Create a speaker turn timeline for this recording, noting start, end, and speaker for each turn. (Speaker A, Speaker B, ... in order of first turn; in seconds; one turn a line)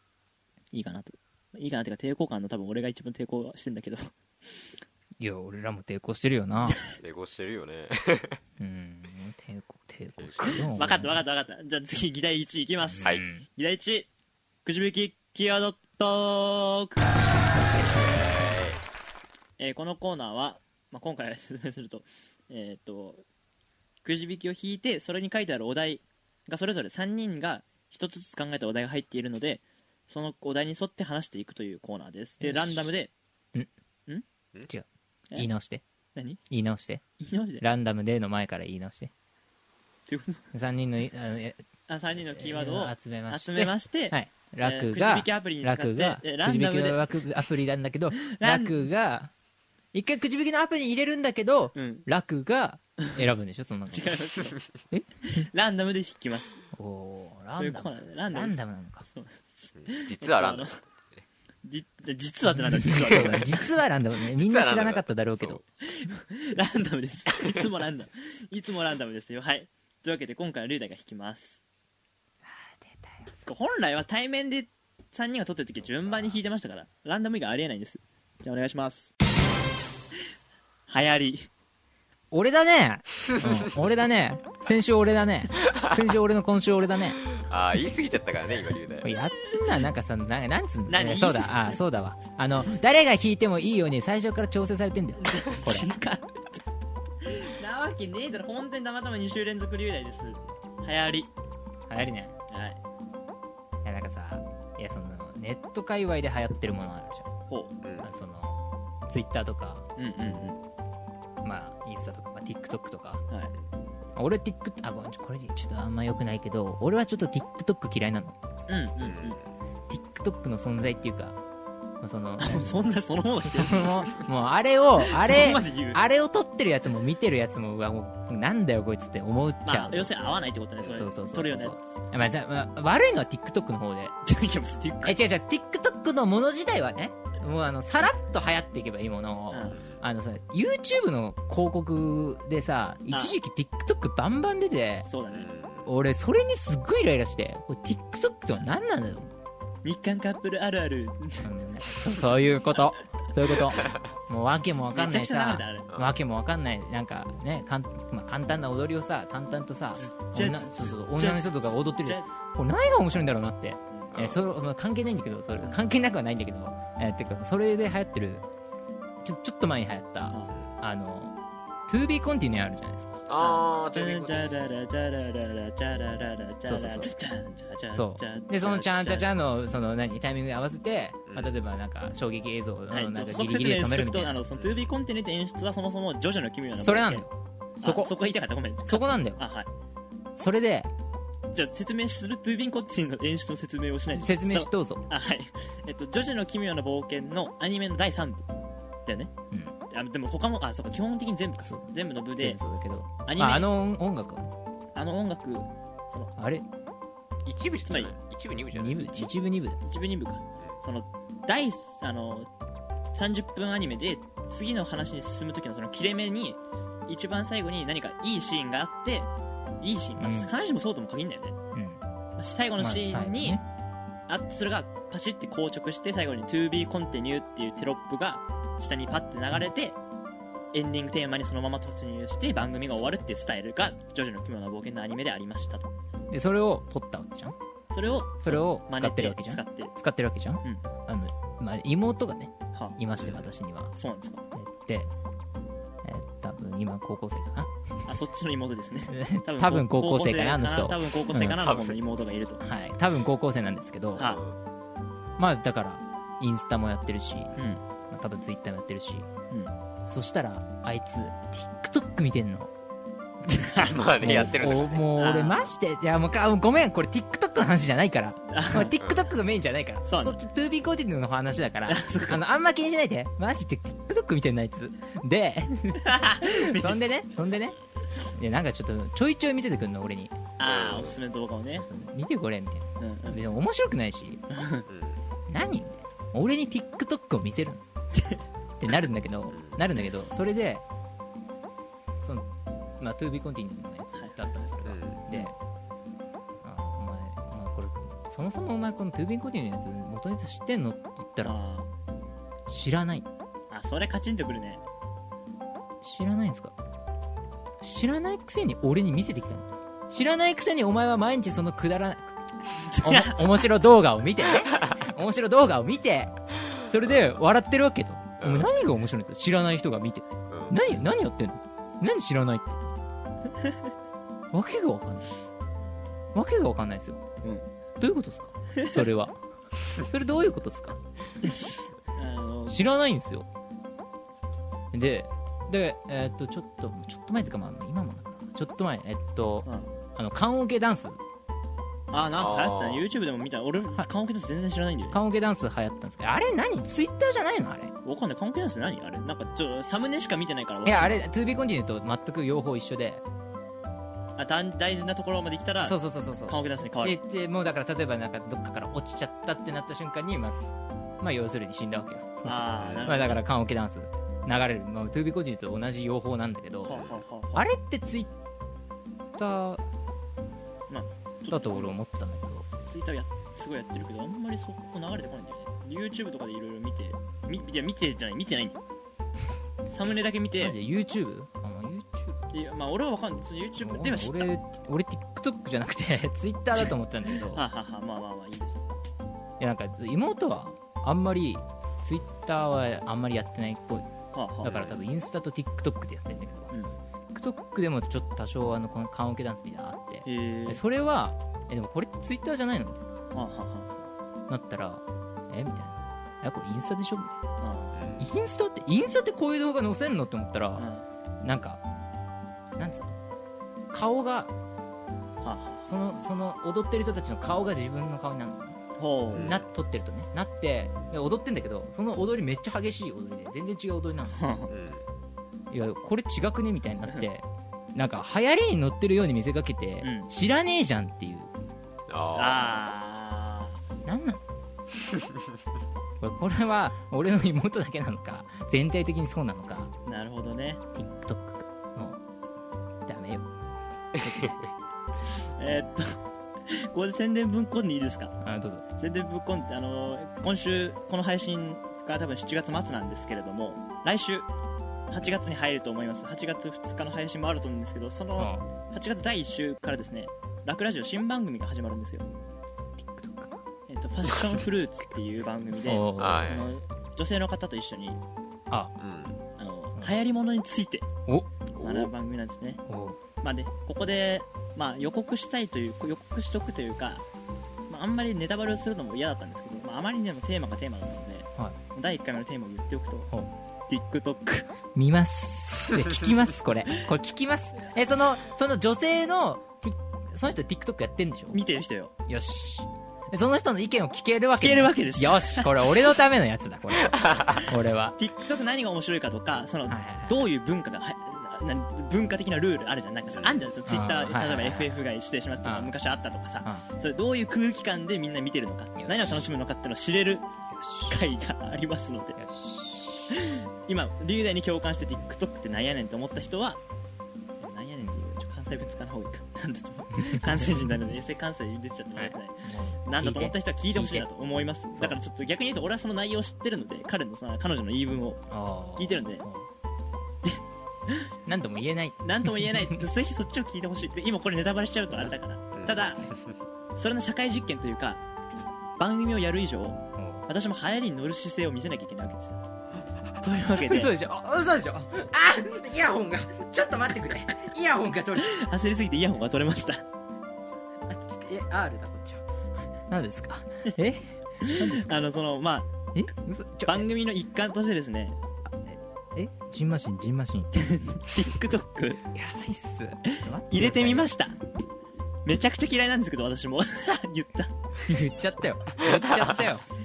Speaker A: 0.7-4.1
Speaker B: 5.2-6.8
Speaker A: 6.7-7.0
Speaker C: 6.9-8.4
Speaker B: 8.6-11.2
Speaker C: 10.2-11.0
Speaker A: 10.4-14.1
Speaker B: 12.8-13.4
Speaker A: 14.6-17.2
Speaker C: 17.9-18.8
Speaker A: 19.6-23.2
Speaker A: 24.0-33.1
Speaker B: 32.4-32.9
Speaker B: 34.6-35.8
Speaker A: 36.1-36.4
Speaker B: 36.5-37.0
Speaker A: 37.2-37.6
Speaker B: 37.6-39.1
Speaker A: 40.1-40.5
Speaker B: 40.5-41.6
Speaker A: 41.9-47.1
Speaker B: 42.2-49.3
Speaker A: 48.3-48.9
Speaker B: 49.9-54.2
Speaker A: 51.7-52.1
Speaker A: 53.9-54.6
Speaker A: 55.2-56.6
Speaker B: 56.7-59.0
Speaker A: 57.5-60.8
Speaker C: 59.8-61.2
Speaker A: 61.6-63.7
Speaker B: 62.5-65.6
Speaker C: 64.4-65.6
Speaker A: 65.8-71.6
Speaker B: 72.4-73.5
Speaker A: 73.4-79.1
Speaker B: 75.8-76.4
Speaker A: 80.9-81.5
Speaker B: 82.3-87.2
Speaker C: 87.3-89.1
Speaker B: 89.0-95.9
Speaker A: 90.9-91.8
Speaker A: 95.2-96.6
Speaker A: 97.2-101.3
Speaker B: 101.9-102.3
Speaker A: 102.5-102.8
Speaker B: 103.8-107.3
Speaker C: 107.8-108.1
Speaker B: 108.0-109.9
Speaker A: 110.0-110.6
Speaker B: 111.4-113.2
Speaker B: 114.1-118.3
Speaker A: 118.7-119.4
Speaker C: 119.0-119.5
Speaker B: 119.9-121.4
Speaker B: 122.0-122.9
Speaker A: 122.4-124.2
Speaker B: 123.4-130.1
Speaker A: 125.0-126.0
Speaker A: 129.6-131.9
Speaker B: 130.9-134.1
Speaker A: 134.2-135.2
Speaker B: 135.0-145.1
Speaker A: 139.5-139.8
Speaker C: 139.7-140.0
Speaker A: 145.0-145.5
Speaker C: 145.3-145.9
Speaker B: 145.8-149.3
Speaker A: 149.8-152.2
Speaker B: 151.4-168.4
Speaker A: 154.9-155.9
Speaker A: 160.0-162.3
Speaker C: 164.1-164.4
Speaker B: 169.2-171.3
Speaker A: 170.3-170.5
Speaker B: 171.9-173.2
Speaker C: 173.3-174.7
Speaker A: 173.4-179.3
Speaker B: 176.7-177.1
Speaker B: 177.9-184.4
Speaker C: 181.3-181.5
Speaker A: 182.9-187.2
Speaker C: 184.5-184.9
Speaker B: 186.8-188.1
Speaker A: 187.8-189.7
Speaker B: 188.8-189.4
Speaker B: 190.3-190.9
Speaker A: 191.5-198.5
Speaker B: 194.1-195.1
Speaker A: 199.1-199.3
Speaker A: 199.9-202.6
Speaker B: 201.6-204.5
Speaker A: 203.2-203.7
Speaker A: 204.9-206.3
Speaker B: 206.4-206.7
Speaker C: 207.4-209.3
Speaker A: 207.8-208.2
Speaker B: 208.7-209.8
Speaker A: 209.8-212.5
Speaker A: 213.1-219.3
Speaker A: 219.8-221.6
Speaker B: 220.2-220.5
Speaker B: 221.7-222.0
Speaker A: 222.4-223.6
Speaker B: 222.8-223.6
Speaker A: 224.3-230.0
Speaker A: 230.7-235.9
Speaker B: 236.3-237.6
Speaker A: 237.9-239.9
Speaker B: 238.4-243.9
Speaker C: 243.2-243.5
Speaker A: 243.9-244.4
Speaker B: 244.5-245.1
Speaker B: 246.0-247.7
Speaker A: 248.1-252.6
Speaker B: 249.1-251.6
Speaker C: 251.5-252.0
Speaker B: 252.6-254.3
Speaker A: 254.2-254.4
Speaker C: 254.2-254.6
Speaker B: 255.4-257.5
Speaker A: 257.6-257.8
Speaker B: 258.1-259.3
Speaker B: 260.1-262.7
Speaker A: 263.4-264.5
Speaker C: 263.8-265.1
Speaker B: 264.2-277.8
Speaker A: 265.1-265.7
Speaker A: 268.5-268.9
Speaker C: 269.0-269.3
Speaker A: 270.0-270.4
Speaker A: 271.9-272.4
Speaker A: 276.0-277.0
Speaker B: 278.3-280.4
Speaker A: 280.6-281.9
Speaker C: 280.6-281.1
Speaker B: 281.7-284.4
Speaker A: 283.0-283.4
Speaker A: 284.5-284.9
Speaker C: 284.9-285.2
Speaker B: 285.5-287.8
Speaker A: 288.1-288.4
Speaker B: 288.8-290.8
Speaker C: 289.5-289.8
Speaker B: 292.2-292.5
Speaker B: 293.0-295.5
Speaker A: 294.1-294.7
Speaker C: 294.8-295.2
Speaker B: 296.6-301.5
Speaker A: 301.4-301.9
Speaker B: 302.7-303.3
Speaker A: 303.7-304.8
Speaker B: 306.0-306.7
Speaker B: 307.8-312.4
Speaker A: 312.8-313.6
Speaker B: 313.0-316.3
Speaker B: 316.9-322.8
Speaker C: 317.0-317.3
Speaker C: 318.4-318.7
Speaker C: 320.5-320.8
Speaker B: 324.5-325.3
Speaker B: 326.3-327.2
Speaker A: 327.4-327.7
Speaker B: 328.0-329.4
Speaker B: 329.9-331.0
Speaker A: 332.1-332.8
Speaker B: 332.7-333.5
Speaker B: 334.9-341.2
Speaker A: 339.6-339.9
Speaker A: 342.1-345.2
Speaker C: 342.3-343.0
Speaker B: 345.1-347.9
Speaker A: 348.0-351.1
Speaker B: 350.8-353.2
Speaker A: 354.4-357.2
Speaker B: 355.8-360.6
Speaker B: 361.2-367.0
Speaker A: 362.4-363.4
Speaker C: 362.8-363.1
Speaker A: 366.9-367.6
Speaker C: 366.9-367.2
Speaker B: 367.5-368.3
Speaker B: 369.4-369.8
Speaker A: 370.9-372.0
Speaker B: 371.5-372.7
Speaker A: 372.9-378.8
Speaker A: 379.9-380.8
Speaker B: 380.6-382.4
Speaker A: 382.5-384.5
Speaker B: 383.8-387.6
Speaker A: 387.5-388.9
Speaker B: 389.6-394.1
Speaker A: 394.3-394.8
Speaker B: 394.6-396.7
Speaker C: 394.6-395.0
Speaker B: 397.3-403.0
Speaker A: 400.2-400.8
Speaker A: 403.3-404.0
Speaker B: 404.5-407.4
Speaker A: 407.6-408.0
Speaker C: 407.9-408.3
Speaker B: 408.2-410.9
Speaker A: 410.8-411.1
Speaker B: 411.4-411.8
Speaker B: 412.8-413.1
Speaker B: 413.9-414.5
Speaker A: 415.4-415.8
Speaker B: 415.9-418.8
Speaker A: 419.0-419.6
Speaker C: 419.3-419.6
Speaker B: 419.4-424.4
Speaker A: 424.3-424.7
Speaker C: 424.7-425.0
Speaker B: 425.7-431.5
Speaker A: 430.0-430.3
Speaker C: 432.1-432.8
Speaker A: 432.3-433.8
Speaker B: 434.0-434.4
Speaker B: 436.2-439.9
Speaker A: 440.1-440.8
Speaker B: 440.9-442.2
Speaker B: 443.1-443.5
Speaker B: 444.2-444.6
Speaker C: 444.2-444.5
Speaker A: 445.6-448.3
Speaker B: 448.4-448.8
Speaker A: 449.0-454.5
Speaker A: 455.1-462.3
Speaker B: 458.4-458.6
Speaker B: 463.0-463.6
Speaker A: 463.9-468.2
Speaker B: 465.7-466.6
Speaker C: 466.2-466.7
Speaker C: 469.0-469.4
Speaker A: 469.6-471.1
Speaker B: 471.3-472.1
Speaker A: 471.8-472.8
Speaker B: 472.9-473.2
Speaker A: 473.4-477.2
Speaker A: 477.9-483.3
Speaker A: 483.9-484.7
Speaker B: 484.9-491.6
Speaker A: 491.5-492.1
Speaker B: 492.3-498.1
Speaker A: 494.6-495.9
Speaker C: 497.1-497.6
Speaker A: 498.1-510.5
Speaker B: 499.9-500.5
Speaker B: 503.9-505.0
Speaker B: 505.6-505.9
Speaker B: 508.9-509.4
Speaker B: 510.7-511.2
Speaker A: 511.1-512.4
Speaker B: 512.4-513.3
Speaker A: 513.3-516.8
Speaker A: 517.6-528.4
Speaker B: 520.2-520.9
Speaker B: 522.1-524.3
Speaker B: 528.5-529.7
Speaker A: 529.0-529.4
Speaker A: 530.4-531.3
Speaker B: 531.5-533.0
Speaker A: 532.2-536.2
Speaker C: 535.8-536.5
Speaker A: 536.9-538.2
Speaker A: 539.0-542.6
Speaker B: 540.1-540.5
Speaker A: 543.4-544.1
Speaker B: 543.5-548.6
Speaker A: 548.4-550.0
Speaker B: 551.0-552.5
Speaker B: 553.1-555.3
Speaker A: 554.6-555.9
Speaker B: 556.1-557.0
Speaker A: 556.9-558.4
Speaker B: 558.6-560.7
Speaker A: 560.7-562.2
Speaker B: 562.3-564.3
Speaker A: 563.3-564.6
Speaker A: 565.4-567.7
Speaker B: 568.0-569.9